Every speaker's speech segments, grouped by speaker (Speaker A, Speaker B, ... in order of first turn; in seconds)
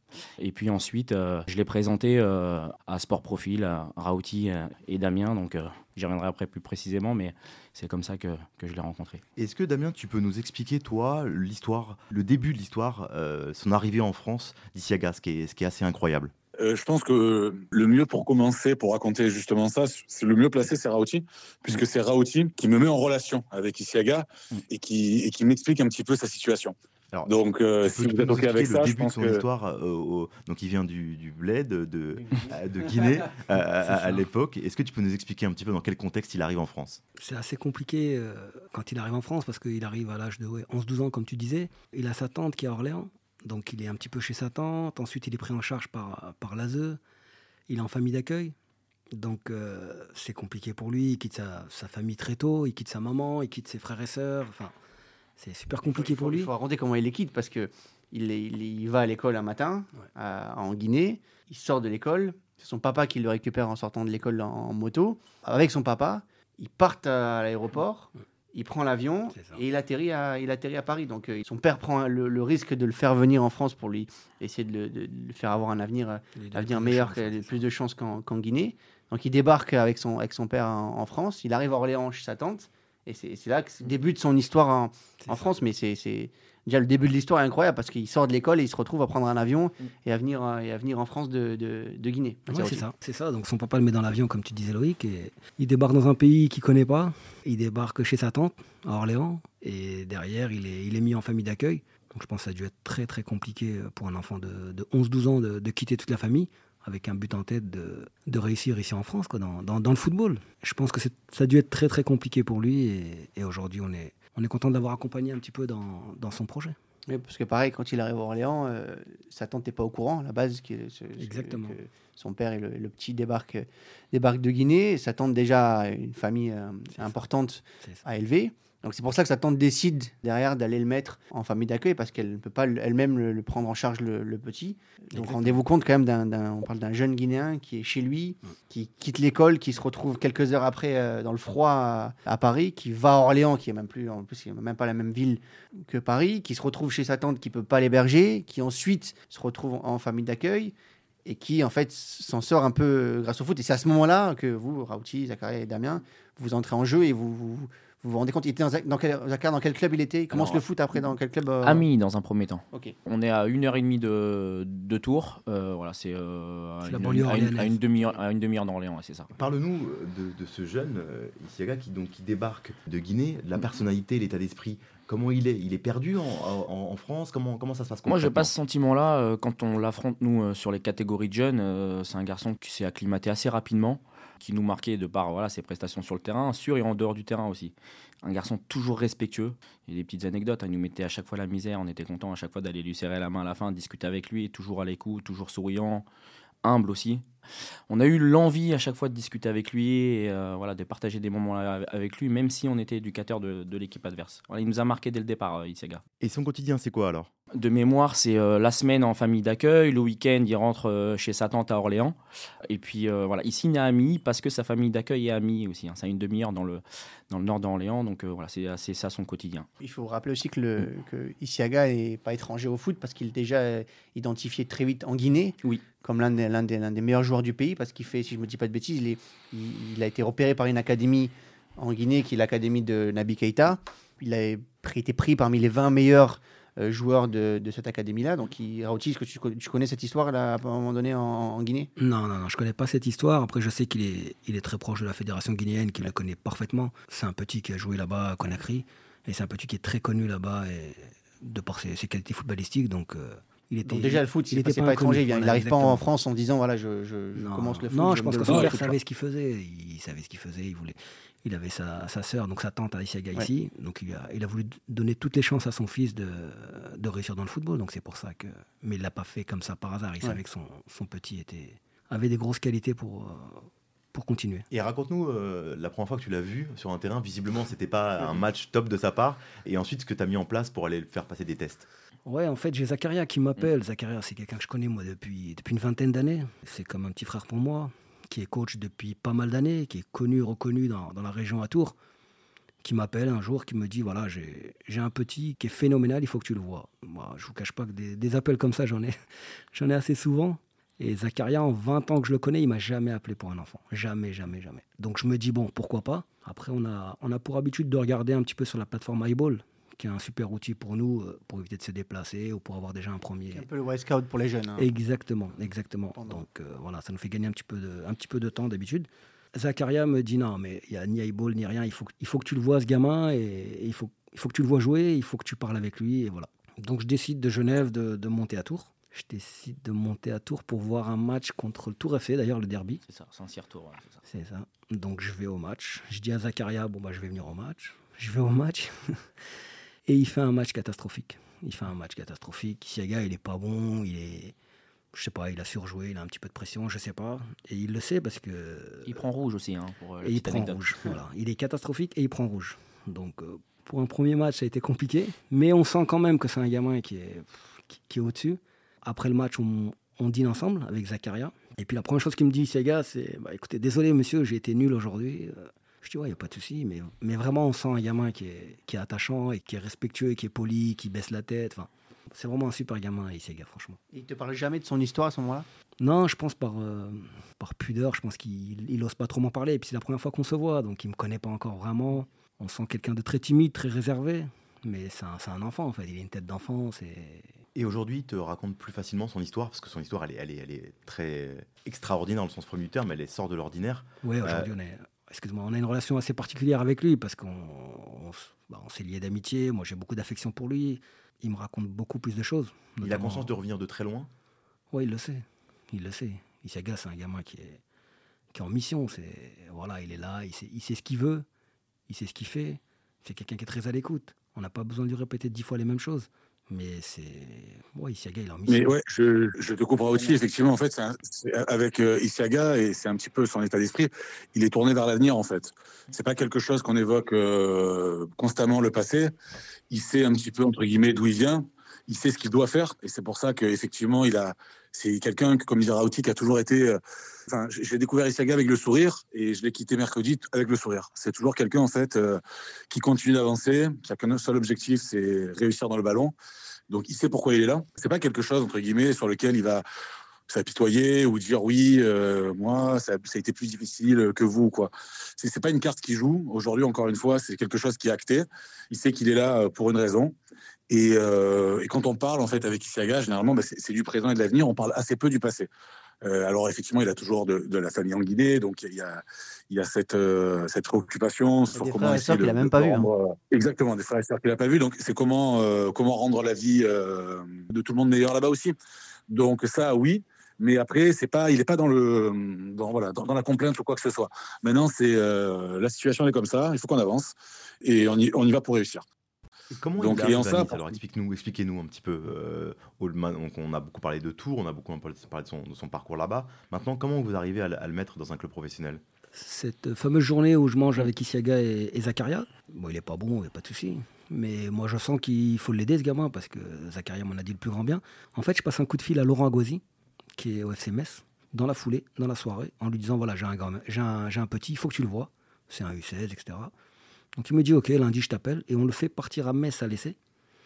Speaker A: 0.4-9.2, 160.3-161.1, 161.6-169.4, 178.1-196.1, 196.6-197.2, 197.9-206.0, 207.5-219.7, 333.1-334.2, 349.1-351.1
Speaker B: 9.3-16.3, 27.9-37.0, 169.3-178.5, 206.2-207.3, 274.7-281.9, 387.7-394.7, 403.0-404.3, 489.7-499.0
Speaker C: 16.6-26.7, 27.2-29.4, 258.5-258.7, 418.7-429.3, 429.9-446.3, 446.9-449.8, 450.5-460.3, 460.9-465.7, 466.2-478.7, 479.3-489.0, 490.0-490.7
Speaker D: 33.8-34.2, 37.2-47.0, 47.7-48.5, 49.1-54.7, 55.4-56.5, 69.3-69.6, 76.3-77.6, 85.2-85.6, 92.5-116.8, 121.2-121.8, 126.9-127.2, 135.1-135.6, 166.8-167.8, 242.0-256.0, 257.3-274.7, 282.2-291.9, 292.8-299.2, 299.7-313.6, 314.8-333.0, 334.2-339.3, 340.1-344.5, 345.1-349.2, 350.2-374.0, 376.0-387.6, 394.2-403.5, 404.9-407.8, 408.5-411.4, 412.1-418.9, 499.3-509.8, 510.4-516.7, 517.4-520.1
Speaker E: 55.9-92.8, 117.1-150.7, 151.2-161.8, 219.8-241.9, 253.8-258.9, 313.5-314.9, 316.1-316.4, 374.1-375.6, 471.8-473.1